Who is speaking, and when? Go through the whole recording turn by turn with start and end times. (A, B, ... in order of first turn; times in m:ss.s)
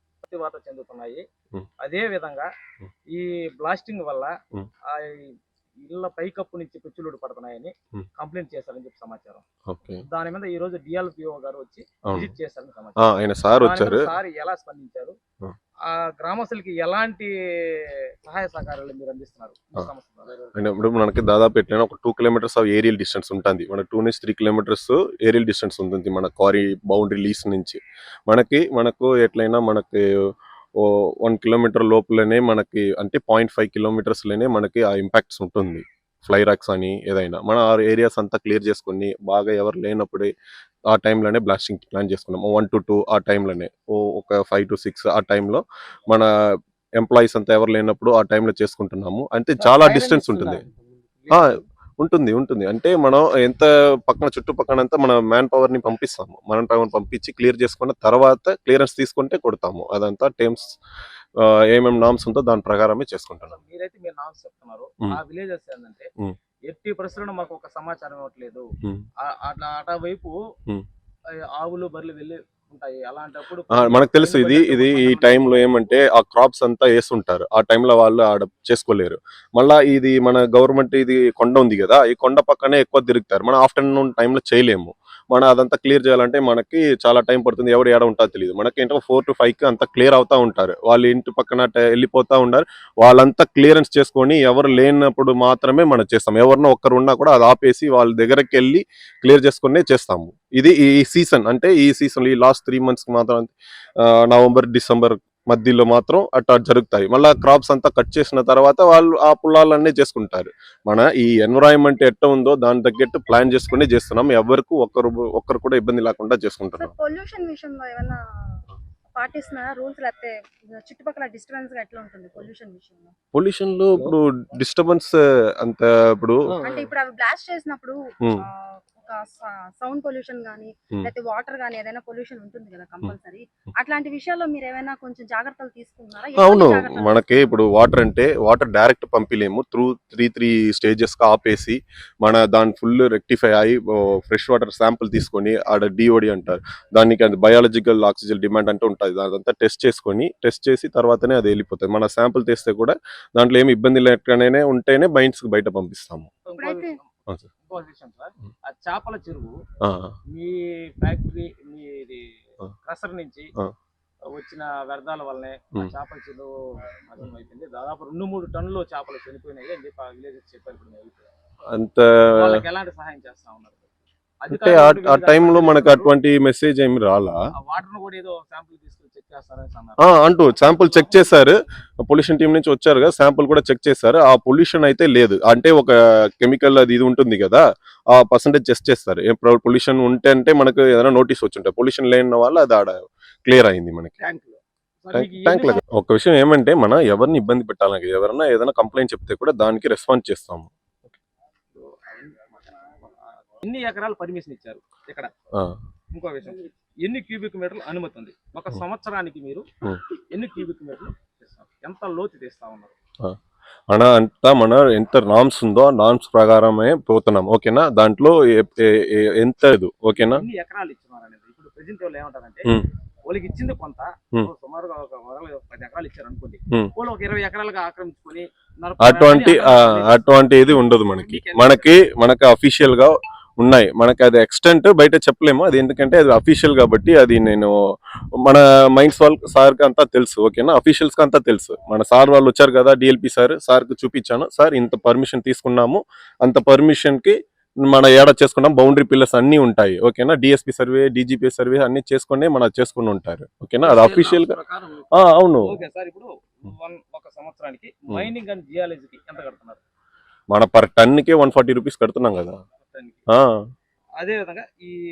0:00.2-0:01.2 A
0:01.8-0:02.5 A
0:03.1-0:04.3 A
0:04.9-0:09.4 A
0:09.7-0:10.0 B
0:10.0-0:13.0 A
0:12.1-0:12.3 B
0:13.0-0:14.1 B
0:13.6-0:15.2 A
0:15.9-0:20.6 A
0:20.6-0:30.0 B
0:30.8-0:40.3 B
0:40.9-0:46.3 B
0:47.0-0:50.6 B
0:49.7-0:50.6 A
0:51.4-1:00.8 B
1:01.4-1:03.6 B
1:03.5-1:06.1 A
1:06.7-1:08.6 A
1:09.2-1:10.4 A
1:11.5-1:16.0 A
1:13.7-1:56.9 B
1:56.8-1:58.6 C
1:59.2-2:03.1 C
2:03.3-2:06.5 B
2:06.6-2:17.6 C
2:16.4-2:36.3 B
2:36.5-2:37.1 A
2:36.6-2:37.0 C
2:37.6-2:39.5 A
2:39.8-2:40.2 B
2:40.3-2:42.2 A
2:42.9-2:43.5 A
2:44.3-2:46.5 A
2:47.1-2:51.3 A
2:51.7-2:52.6 B
2:52.3-2:53.9 A
2:54.4-2:56.1 A
2:54.5-2:57.4 B
2:57.6-3:00.0 A
3:00.0-3:12.9 B
3:00.6-3:01.5 A
3:13.4-3:14.1 B
3:14.2-3:15.8 A
3:15.1-3:20.7 B
3:21.8-3:25.3 A
3:26.1-3:29.7 A
3:30.3-3:32.9 A
3:33.9-3:40.4 B
3:40.2-3:42.7 A
3:43.3-3:51.9 A
3:49.0-3:57.7 B
3:58.4-4:14.6 B
4:13.8-4:15.1 A
4:15.2-4:15.8 B
4:15.6-4:19.8 A
4:20.5-4:22.6 B
4:22.8-4:23.2 A
4:24.2-4:25.0 A